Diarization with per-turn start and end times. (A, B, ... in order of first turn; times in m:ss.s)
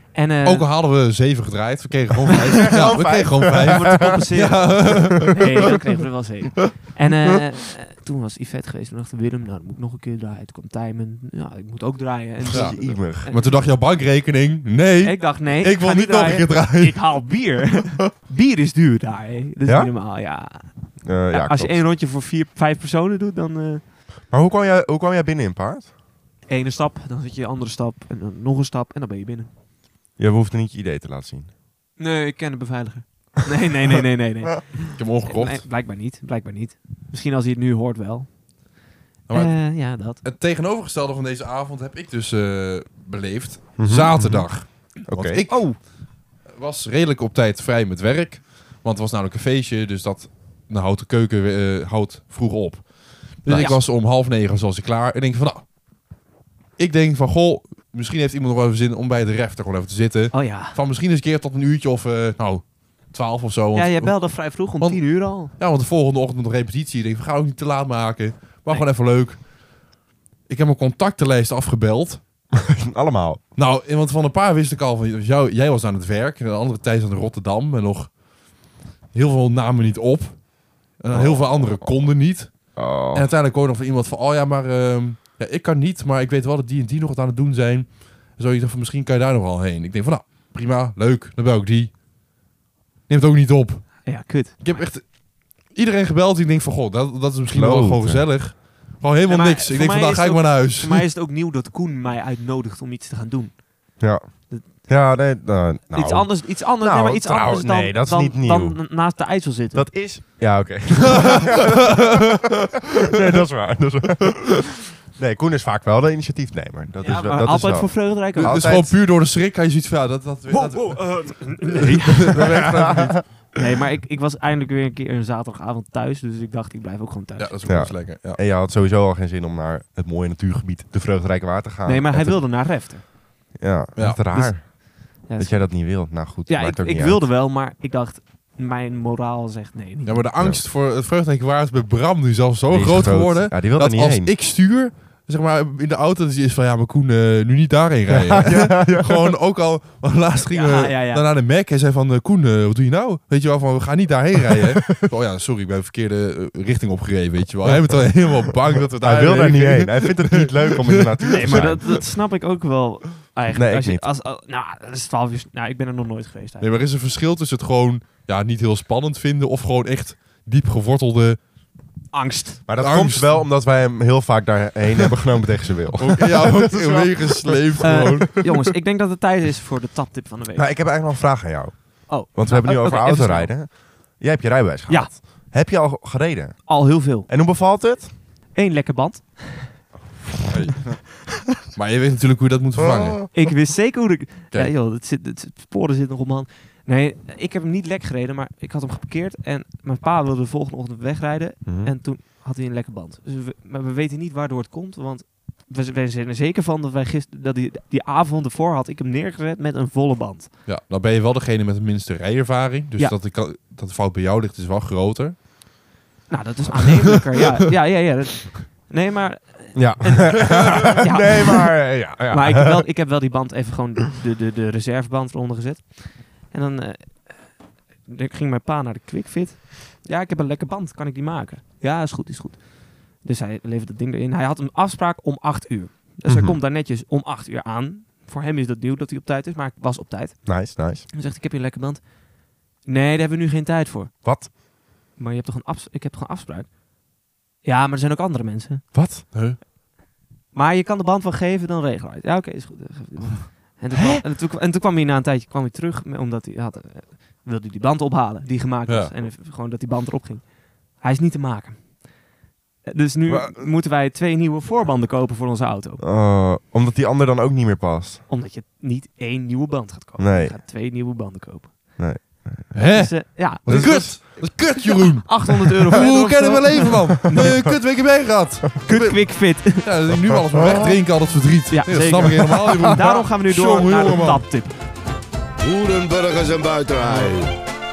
0:00.1-0:00.7 A
0:00.4-0:05.4 B
0:02.3-0:13.5 A
0:02.5-0:04.6 C
0:12.4-0:13.3 C
0:12.5-0:17.0 B
0:15.0-0:23.8 A
0:19.7-0:19.9 C
0:21.0-0:21.8 C
0:24.3-0:25.9 C
0:26.5-0:29.5 A
0:30.2-0:31.5 C
0:32.0-0:38.8 A
0:35.0-0:35.6 B
0:39.3-0:55.6 B
0:39.3-0:40.2 A
0:43.8-0:45.5 C
0:45.4-0:45.8 A
0:53.5-0:53.8 A
0:56.8-1:09.5 B
1:00.3-1:00.8 A
1:03.8-1:05.5 A
1:10.5-1:12.2 B
1:12.5-1:13.4 C
1:13.6-1:18.2 B
1:19.1-1:31.9 B
1:21.1-1:21.9 C
1:22.8-1:23.3 C
1:33.1-1:41.1 B
1:34.0-1:34.8 A
1:37.5-1:38.3 C
1:39.3-1:44.7 A
1:44.0-1:48.9 C
1:45.9-1:50.1 A
1:49.7-1:58.9 C
1:57.0-1:58.9 A
1:58.3-2:03.2 B
2:00.5-2:07.6 A
2:02.3-2:03.2 C
2:07.4-2:08.4 B
2:07.7-2:12.5 C
2:11.8-2:13.1 A
2:13.5-2:17.3 C
2:14.0-2:14.2 B
2:14.3-2:20.3 A
2:20.0-2:41.8 B
2:20.4-2:20.6 C
2:22.7-2:24.4 C
2:28.3-2:29.3 C
2:30.5-2:31.2 A
2:37.6-2:38.3 C
2:39.0-2:41.9 C
2:41.3-2:46.7 A
2:43.5-2:44.1 C
2:46.6-2:51.4 B
2:52.1-2:52.6 A
2:52.7-2:58.5 C
2:52.8-2:53.5 B
2:56.0-2:58.4 B
2:57.8-3:00.7 A
3:00.6-3:08.1 C
3:02.1-3:03.6 A
3:04.9-3:05.2 A
3:06.7-3:07.3 A
3:08.5-3:09.8 A
3:10.5-3:11.0 B
3:11.7-3:13.4 B
3:12.8-3:13.3 C
3:13.3-3:30.5 A
3:21.7-3:21.9 C
3:30.7-3:35.4 B
3:36.3-4:02.2 A
3:36.8-3:37.2 B
3:39.8-3:42.8 C
3:56.3-3:56.6 C
4:00.5-4:01.1 C
4:02.8-4:04.2 A
4:04.2-4:04.5 C
4:05.2-4:06.8 A
4:07.6-4:08.9 A
4:08.9-4:09.2 C
4:09.3-4:09.6 B
4:10.5-4:22.2 A
4:14.0-4:14.2 C
4:22.8-4:26.0 A
4:23.2-4:23.7 C
4:26.0-4:28.2 C
4:28.3-4:32.3 A
4:30.2-4:30.6 C
4:32.0-4:33.2 C
4:32.7-4:44.5 B
4:32.9-4:37.7 A
4:33.7-4:34.3 C
4:37.3-4:37.8 C
4:38.9-4:40.0 A
4:40.6-4:40.9 C
4:41.7-4:44.8 A
4:45.6-4:47.6 D